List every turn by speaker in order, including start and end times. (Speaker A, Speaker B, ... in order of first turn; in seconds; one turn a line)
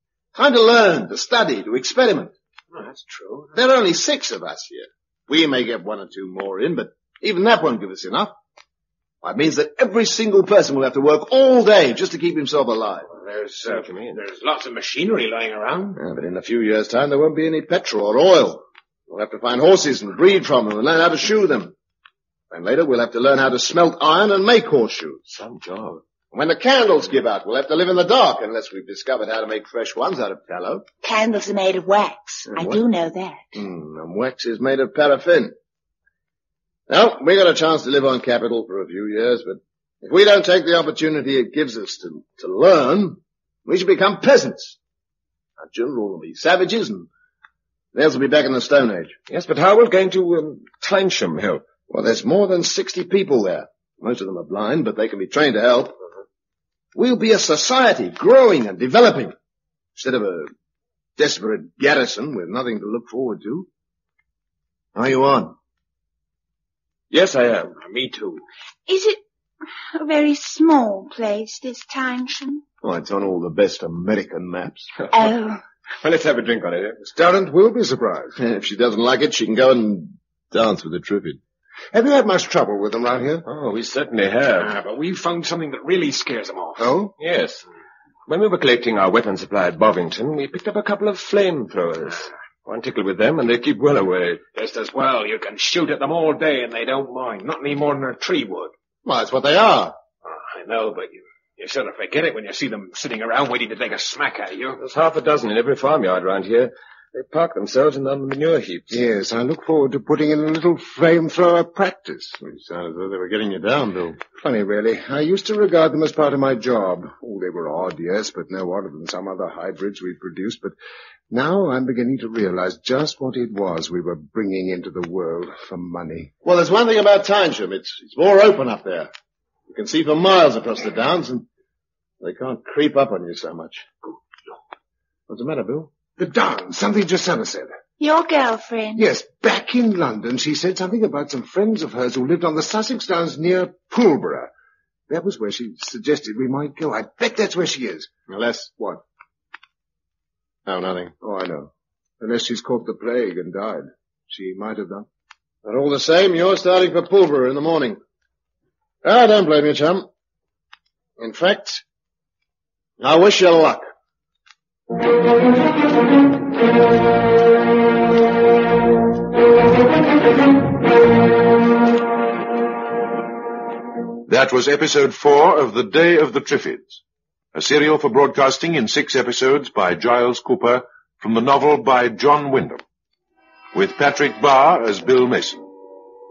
Speaker A: 0.3-2.3
Speaker B: 2.7-3.5
Speaker A: 3.5-8.4
Speaker A: 9.2-13.1
Speaker B: 13.1-16.0
Speaker C: 13.6-14.2
Speaker A: 16.0-21.8
Speaker A: 22.5-25.2
Speaker C: 25.3-26.0
Speaker A: 26.3-30.9
Speaker D: 31.0-33.5
Speaker A: 32.5-32.8
Speaker A: 33.5-35.5
Speaker A: 36.9-44.8
Speaker A: 45.6-47.1
Speaker A: 47.9-49.2
Speaker C: 49.3-51.6
Speaker A: 51.9-56.0
Speaker A: 57.0-59.4
Speaker A: 60.0-60.5
Speaker A: 61.2-63.7
Speaker A: 65.0-65.5
Speaker C: 67.1-67.8
Speaker B: 67.8-68.4
Speaker D: 68.9-69.2
Speaker D: 69.9-72.6
Speaker A: 72.8-74.9
Speaker C: 75.0-75.4
Speaker D: 75.1-75.6
Speaker C: 76.0-77.0
Speaker E: 77.0-78.4
Speaker A: 78.4-81.4
Speaker E: 81.9-83.5
Speaker C: 83.5-84.7
Speaker B: 84.6-86.9
Speaker E: 86.8-87.1
Speaker C: 87.2-87.7
Speaker C: 88.3-94.4
Speaker B: 94.5-98.7
Speaker A: 99.0-100.0
Speaker B: 100.2-104.8
Speaker C: 104.8-109.0
Speaker E: 108.9-112.4
Speaker A: 112.4-114.2
Speaker E: 114.3-120.7
Speaker E: 121.3-126.3
Speaker A: 126.4-129.1
Speaker A: 129.7-131.5
Speaker A: 132.2-134.5
Speaker A: 135.3-135.9
Speaker E: 136.2-137.7
Speaker D: 138.0-139.0
Speaker E: 139.0-144.5
Speaker E: 145.1-148.1
Speaker A: 148.3-148.9
Speaker A: 150.7-151.1
Speaker E: 151.2-155.1
Speaker A: 155.6-158.0
Speaker A: 159.0-160.1
Speaker A: 161.2-161.8
Speaker A: 163.0-163.8
Speaker F: 174.3-177.0
Speaker F: 177.5-182.8
Speaker F: 183.7-185.6